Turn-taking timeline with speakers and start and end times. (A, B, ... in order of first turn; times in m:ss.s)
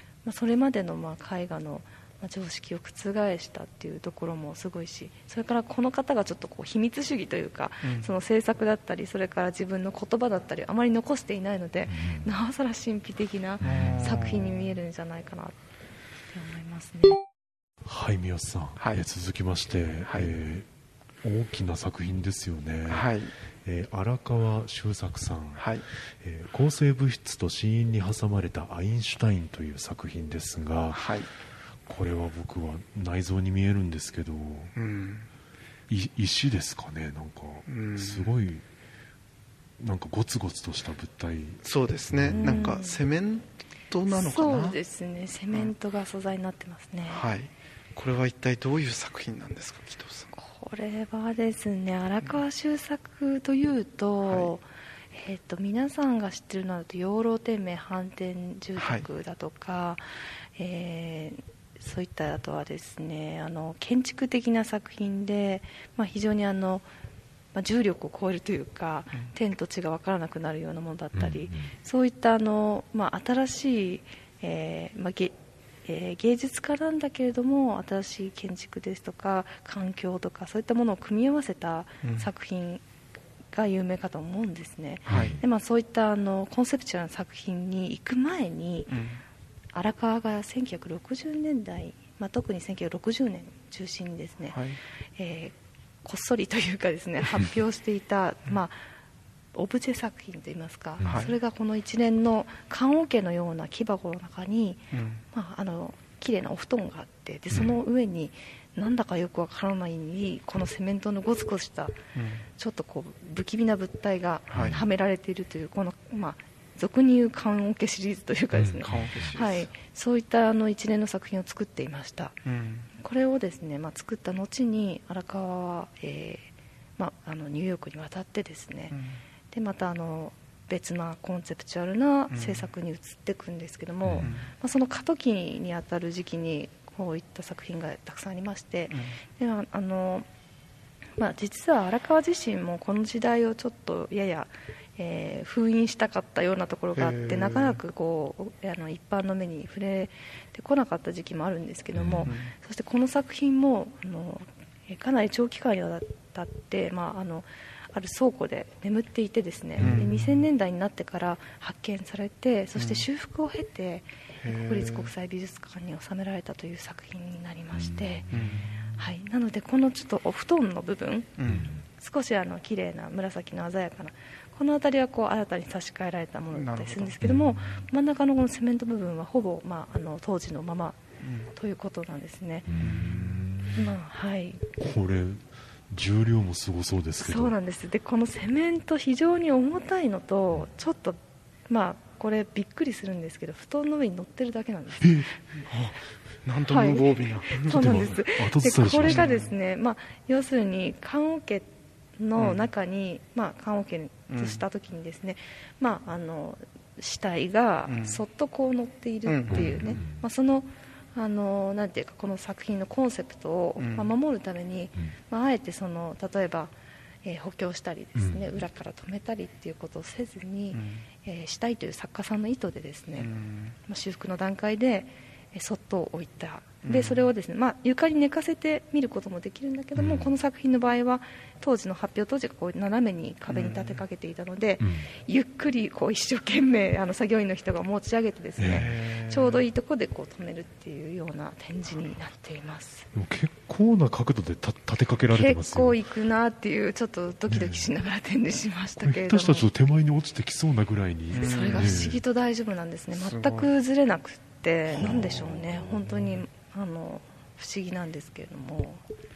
0:00.2-0:15.6 A
0:07.8-0:08.1 B
0:11.9-0:12.3 C
0:13.6-0:14.3 C
0:13.6-0:14.7 B
0:16.3-0:17.2 A
0:17.8-0:20.7 C
0:18.8-0:19.0 B
0:21.2-0:23.1 C
0:22.9-0:23.3 B
0:23.6-0:31.1 C
0:25.6-0:25.8 B
0:30.9-0:31.3 B
0:31.9-0:34.7 C
0:34.8-0:35.3 B
0:35.9-0:38.6 C
0:37.7-0:38.3 B
0:39.8-0:42.6 C
0:41.6-0:44.8 B
0:42.3-0:43.0 A
0:44.1-0:47.2 A
0:47.1-0:50.3 B
0:50.3-1:00.0 A
0:58.8-0:59.0 B
1:00.6-1:06.9 A
1:07.5-1:22.8 A
1:11.1-1:11.7 C
1:22.0-1:22.3 B
1:23.5-1:29.0 A
1:25.1-1:25.4 C
1:25.1-1:25.4 B
1:28.9-1:29.2 B
1:29.7-1:34.6 A
1:34.5-1:34.8 B
1:35.2-1:38.8 A
1:39.5-1:52.0 A
1:41.0-1:41.2 C
1:41.0-1:41.4 B
1:44.9-1:45.2 B
1:52.1-1:52.4 B
1:52.6-2:02.4 A
1:54.5-1:54.8 B
1:58.5-1:59.3 C
1:58.9-1:59.7 B
2:02.4-2:02.9 B
2:03.0-2:09.0 A
2:08.9-2:09.2 B
2:09.5-2:20.2 A
2:12.3-2:12.7 B
2:14.2-2:14.5 B
2:18.9-2:19.2 B
2:21.2-2:48.2 A
2:26.9-2:27.8 B
2:31.9-2:32.3 C
2:32.2-2:32.5 B
2:39.8-2:40.4 B
2:42.8-2:43.1 B
2:44.4-2:45.1 B
2:47.8-2:48.5 C
2:48.3-2:48.6 B
2:49.0-2:51.4 A
2:51.4-2:51.7 B
2:51.4-2:51.8 C
2:51.9-3:01.0 A
2:56.5-2:57.2 B
2:57.2-2:57.7 C
3:01.2-3:01.5 B
3:01.5-3:02.7 A
3:02.7-3:04.0 C
3:02.8-3:03.4 B
3:03.7-3:04.6 A
3:04.8-3:07.5 C
3:07.2-3:15.3 A
3:15.0-3:15.3 C
3:15.7-3:18.0 B
3:16.7-3:43.3 A
3:17.7-3:19.3 C
3:19.0-3:19.5 B
3:22.4-3:22.7 B
3:24.3-3:24.6 B
3:27.9-3:28.2 B
3:29.2-3:29.9 B
3:29.5-3:30.2 C
3:33.8-3:34.1 B
3:38.2-3:38.6 C
3:40.7-3:41.1 B
3:43.2-3:43.8 B
3:43.9-4:03.1 A
3:46.8-3:47.3 B
3:50.0-3:50.3 C
3:53.5-3:54.0 B
3:54.8-3:55.1 C
3:58.6-3:58.9 C
3:58.7-3:59.6 B
4:03.1-4:06.0 C
4:05.3-4:09.7 A
4:07.5-4:07.9 C
4:09.0-4:12.2 C
4:11.3-4:12.2 B
4:11.4-4:19.0 A
4:13.1-4:13.7 B
4:15.0-4:15.7 C